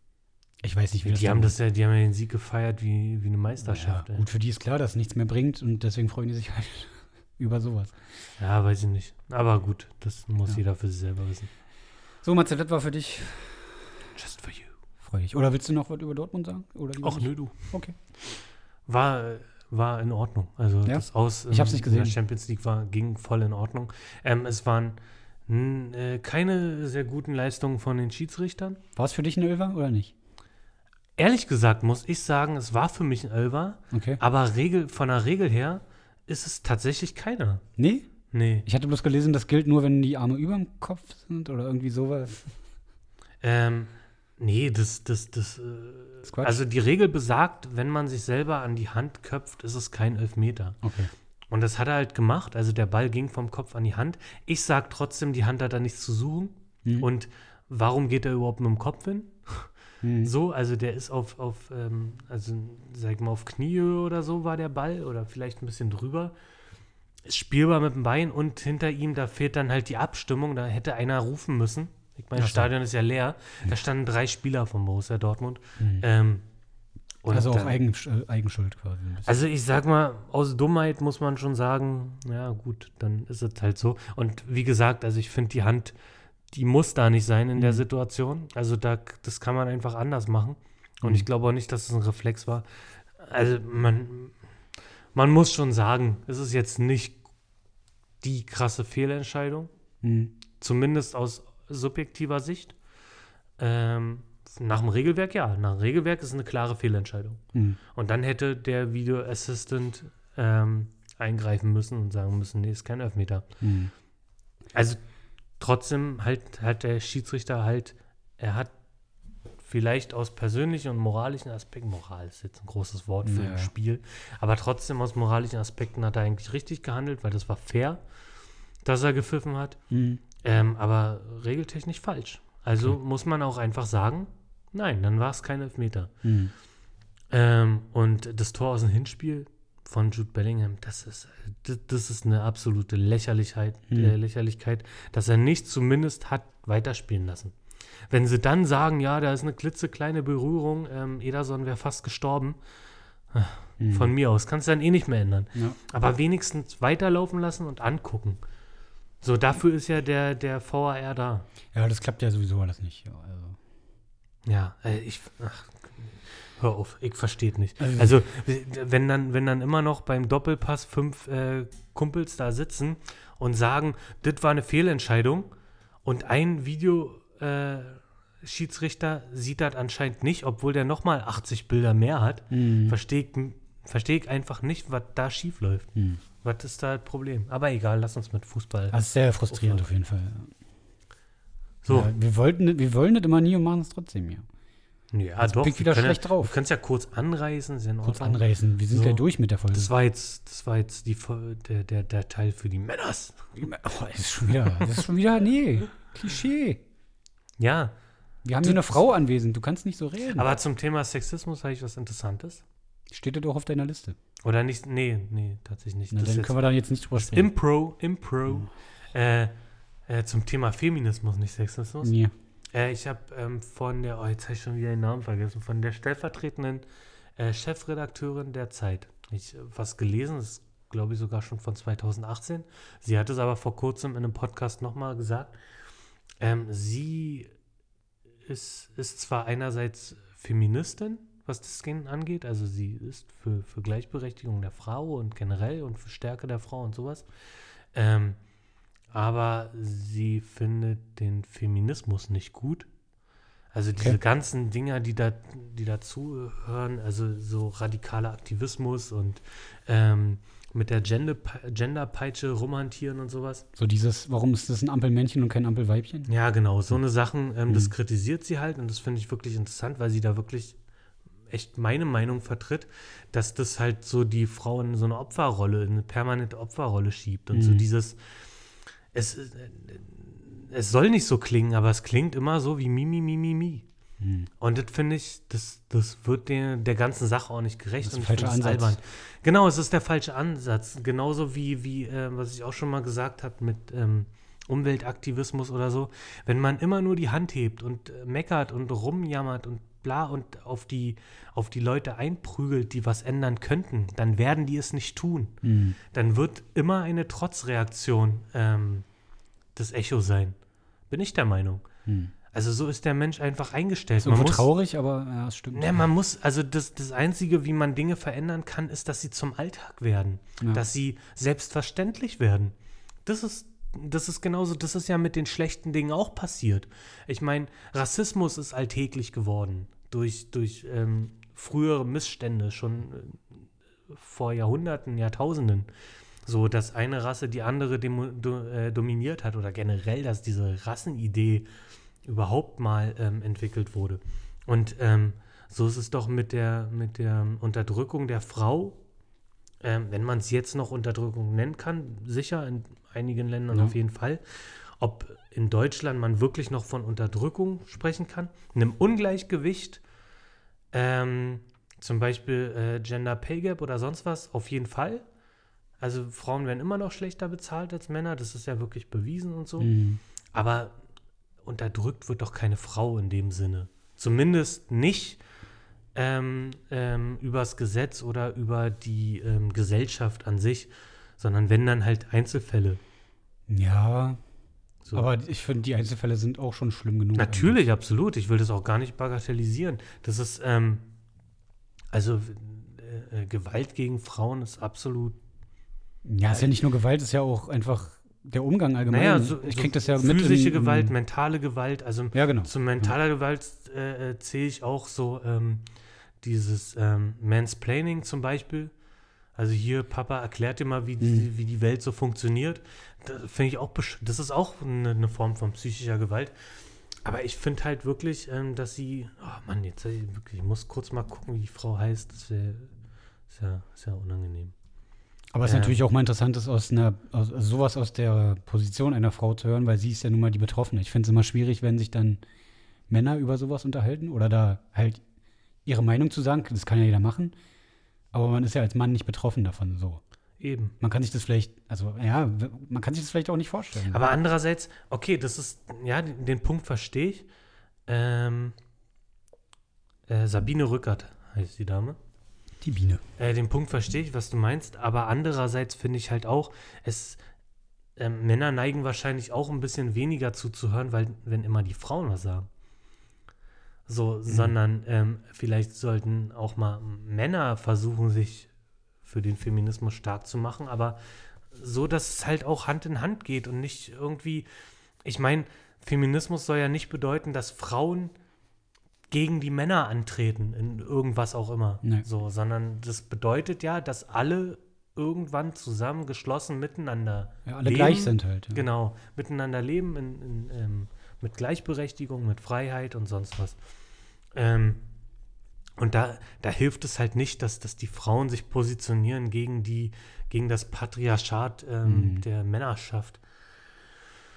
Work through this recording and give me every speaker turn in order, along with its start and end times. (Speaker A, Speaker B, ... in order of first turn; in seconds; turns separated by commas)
Speaker A: 0.6-1.6, Speaker B: 1.0-4.3, Speaker A: 3.6-8.0, Speaker B: 8.4-11.5, Speaker A: 12.2-13.9, Speaker B: 14.2-14.7, Speaker A: 15.0-18.0, Speaker B: 17.0-17.6, Speaker B: 18.9-28.8, Speaker A: 20.9-22.2, Speaker A: 29.0-30.1, Speaker B: 31.2-37.6, Speaker A: 33.9-34.2, Speaker A: 37.8-38.1, Speaker B: 38.3-38.7, Speaker A: 38.7-42.5, Speaker B: 43.4-50.8, Speaker A: 46.3-46.6, Speaker A: 50.8-51.1, Speaker B: 51.5-59.7, Speaker A: 60.0-60.3, Speaker B: 60.2-66.3, Speaker B: 67.2-76.4, Speaker A: 72.4-72.7, Speaker A: 75.8-76.1, Speaker B: 77.2-77.8, Speaker A: 77.3-79.3, Speaker B: 79.2-86.0, Speaker B: 86.5-92.7, Speaker A: 87.6-87.8, Speaker B: 93.2-94.3, Speaker B: 95.1-97.2, Speaker B: 98.2-99.7, Speaker A: 100.0-100.3, Speaker B: 100.6-102.8, Speaker B: 103.6-107.4, Speaker A: 107.5-107.8, Speaker B: 107.9-113.5, Speaker A: 113.6-113.9, Speaker B: 114.7-115.0, Speaker B: 115.6-118.7, Speaker B: 119.6-128.0, Speaker A: 123.2-123.7, Speaker B: 128.8-129.8, Speaker A: 129.9-130.2, Speaker B: 130.4-136.1, Speaker A: 136.2-136.5, Speaker B: 137.3-147.6, Speaker A: 143.9-144.2, Speaker B: 148.1-152.6, Speaker B: 153.3-158.4, Speaker A: 153.8-154.1, Speaker B: 159.2-161.5, Speaker A: 161.7-163.6, Speaker B: 164.5-175.5, Speaker A: 167.8-168.2, Speaker B: 176.1-185.9, Speaker A: 182.5-183.0, Speaker A: 186.0-186.2, Speaker B: 186.4-189.0, Speaker A: 188.9-190.5, Speaker B: 189.5-189.8, Speaker B: 191.8-192.1, Speaker A: 191.9-194.4, Speaker B: 195.1-203.4, Speaker A: 195.4-196.6, Speaker A: 198.0-199.9, Speaker A: 203.6-206.8, Speaker B: 207.6-207.9, Speaker A: 208.4-210.5, Speaker B: 208.6-209.0, Speaker B: 210.3-212.6, Speaker A: 213.1-214.2, Speaker B: 214.4-216.6, Speaker A: 216.1-217.5, Speaker B: 217.2-219.5, Speaker B: 220.1-222.2, Speaker A: 222.0-222.3, Speaker B: 222.7-226.8, Speaker B: 227.4-235.6, Speaker B: 236.4-237.5, Speaker B: 238.5-247.3, Speaker B: 247.9-248.4, Speaker B: 249.1-252.9, Speaker B: 253.7-263.7, Speaker A: 263.8-266.3, Speaker B: 266.3-270.8, Speaker B: 271.5-278.2, Speaker A: 277.5-277.9, Speaker B: 279.1-283.9, Speaker A: 284.2-284.5, Speaker B: 284.6-305.6, Speaker A: 288.0-289.0, Speaker A: 305.6-306.0, Speaker B: 306.1-309.1, Speaker B: 309.8-310.6, Speaker B: 311.1-311.9, Speaker A: 312.1-312.3, Speaker B: 312.5-314.7, Speaker A: 314.2-316.1, Speaker B: 315.7-322.7, Speaker B: 323.3-333.6, Speaker B: 334.1-335.9, Speaker B: 336.5-341.7, Speaker B: 342.2-349.0, Speaker B: 349.8-360.0, Speaker B: 360.9-365.2, Speaker B: 366.0-369.9, Speaker A: 369.8-370.2, Speaker B: 370.5-371.0, Speaker B: 371.6-375.4, Speaker B: 376.1-383.0, Speaker A: 383.7-384.4, Speaker A: 385.1-387.9, Speaker B: 387.4-391.1, Speaker B: 392.1-395.4, Speaker A: 396.2-401.1, Speaker B: 399.1-405.8, Speaker A: 402.3-403.1, Speaker B: 406.4-408.9, Speaker B: 409.6-416.5, Speaker A: 411.2-411.5, Speaker B: 417.2-422.9, Speaker B: 423.5-424.8, Speaker A: 425.5-432.4, Speaker B: 425.6-426.0, Speaker A: 433.1-435.2, Speaker A: 435.9-437.5, Speaker A: 438.3-440.2, Speaker B: 440.6-440.9, Speaker A: 441.0-444.2, Speaker B: 444.1-447.5, Speaker B: 448.1-448.8, Speaker B: 450.3-452.2, Speaker A: 452.8-453.2, Speaker B: 453.4-457.4, Speaker B: 458.2-462.7, Speaker B: 464.1-468.7, Speaker A: 464.5-464.8, Speaker B: 469.2-471.2, Speaker B: 471.7-474.7, Speaker B: 475.2-478.3, Speaker B: 479.3-493.8, Speaker A: 487.7-488.8, Speaker B: 494.5-495.0, Speaker B: 496.0-503.4, Speaker A: 502.1-502.4